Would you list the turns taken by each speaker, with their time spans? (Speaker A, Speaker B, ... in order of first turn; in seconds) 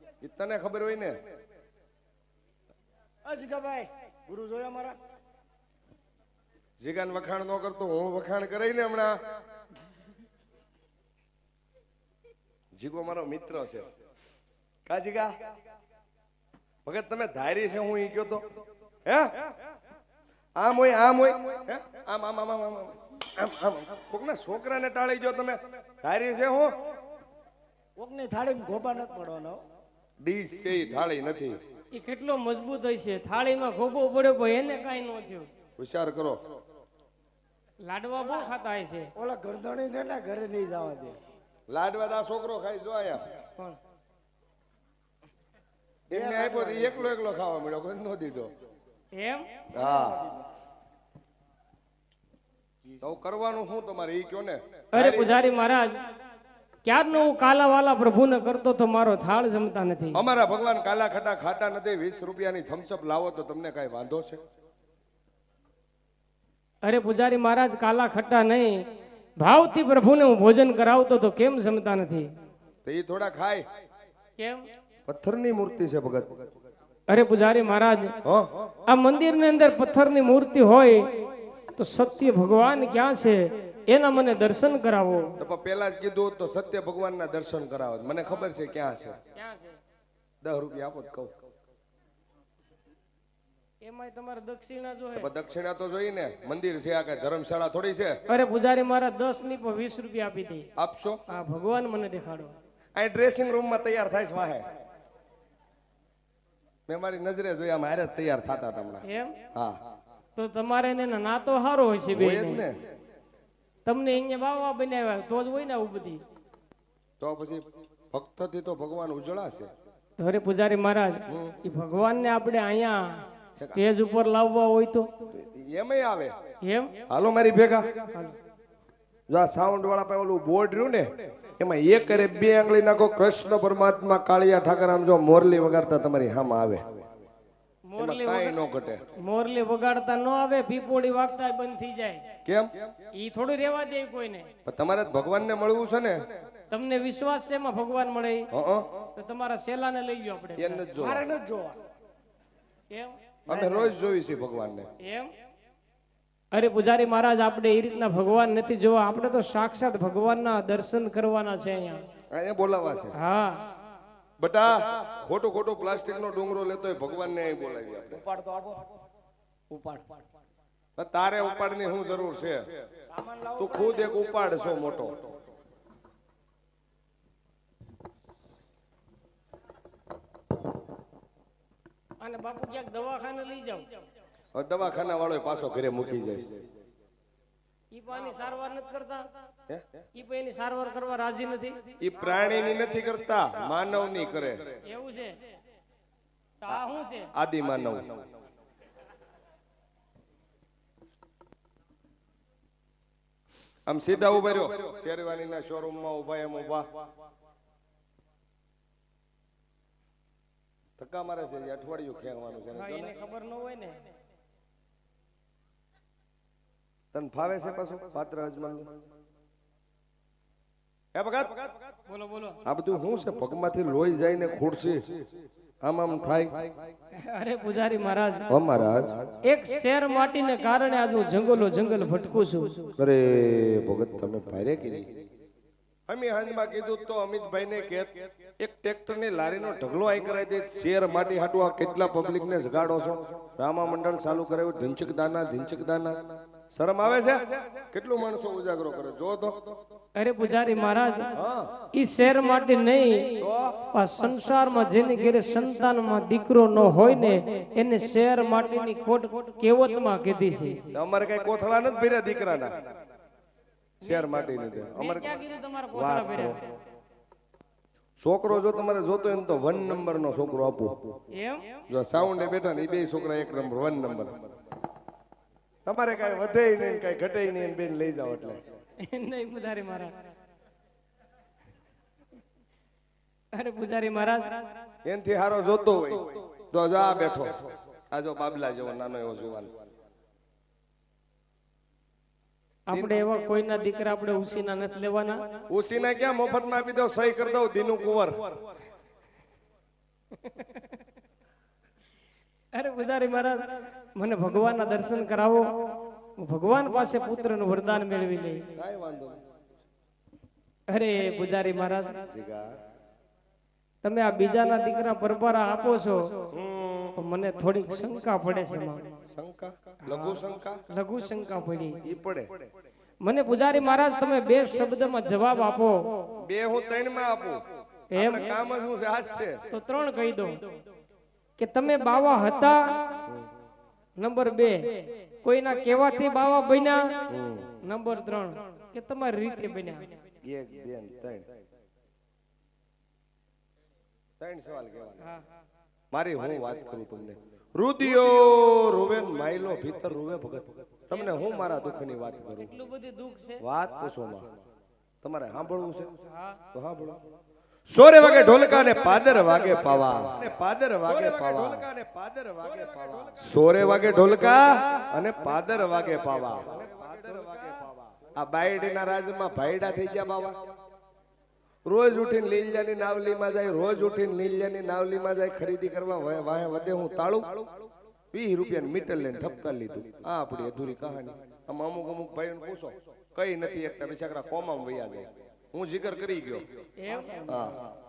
Speaker A: 0.2-1.2, 6.8-9.2, 12.8-13.9, 14.8-15.3, 16.8-18.4, 19.1-19.3, 20.6-26.7, 30.2-31.6, 35.8-36.4, 41.7-43.2, 46.1-48.5, 49.7-50.2, 53.0-55.3, 60.1-64.4, 72.8-73.7, 75.0-76.4, 78.2-78.6, 85.4-89.1, 90.4-91.3, 95.1-98.2, 100.8-101.2, 103.0-104.7, 106.9-109.8, 112.1-112.8, 117.2-119.7, 121.3-121.5, 125.3-126.3, 127.1-127.8, 129.3-136.9, 138.0-139.0, 142.4-142.7, 144.6-146.2, 148.5-148.9, 150.6-151.2, 153.5-154.9, 162.3-163.1, 164.4-168.2, 171.0-172.7, 173.6-175.1, 184.5-186.7, 192.0-194.6, 197.3-198.2, 203.9-206.9, 211.0-213.1, 217.1-218.9, 221.1-221.7, 222.7-225.1, 225.8-226.6, 228.5-229.2, 233.0-235.1, 236.1-246.2, 246.7-249.7, 251.4-251.7, 253.4-253.7, 260.9-262.8, 264.0-265.4, 265.9-266.6, 268.2-271.1, 271.9-274.4, 275.8-278.6, 285.0-289.7, 292.9-293.2, 295.7-298.6, 308.8-309.4, 312.3-312.7, 316.5-317.2, 319.3-320.8, 322.0-322.5, 326.4-329.6, 337.3-337.8, 340.4-341.4, 344.4-345.2, 346.1-352.7, 353.6-354.5, 355.2-356.1, 356.7-357.2, 357.9-370.6, 371.9-377.6, 378.3-386.6, 387.5-387.8
Speaker B: 3.2-5.0, 28.0-29.6, 39.1-41.2, 46.1-47.0, 49.7-50.4, 150.9-151.8, 153.5-153.9, 168.1-168.9, 169.7-170.2, 173.1-174.2
Speaker C: 31.9-35.5, 37.8-39.1, 49.1-49.5, 54.9-56.0, 56.8-60.2, 66.8-68.8, 69.4-72.3, 74.4-74.6, 77.1-78.1, 78.9-81.1, 81.8-85.3, 89.3-89.8, 93.8-95.3, 98.3-100.7, 101.3-102.5, 109.0-109.3, 110.3-112.6, 113.8-116.2, 120.2-123.2, 123.7-125.1, 126.6-126.9, 137.9-138.6, 139.2-142.2, 143.2-144.5, 146.7-148.5, 149.2-150.8, 155.0-155.3, 156.5-162.0, 163.1-163.6, 182.2-183.8, 187.9-189.3, 190.2-191.9, 194.8-195.4, 196.6-197.3, 212.7-214.0, 222.1-222.6, 227.2-228.5, 229.4-232.9, 250.2-251.3, 251.9-260.9, 264.0-266.6, 271.3-271.8, 279.0-280.1, 283.5-284.7, 292.9-295.4, 300.4-300.8, 302.7-303.6, 304.1-305.6, 306.4-308.6, 310.9-312.2, 314.0-316.2, 317.1-319.1, 320.1-322.0, 323.2-326.0, 328.1-328.6, 329.7-330.6, 331.6-333.0, 334.2-337.3, 337.8-340.1, 351.1-351.5, 352.6-353.6, 356.3-356.6, 387.0-387.7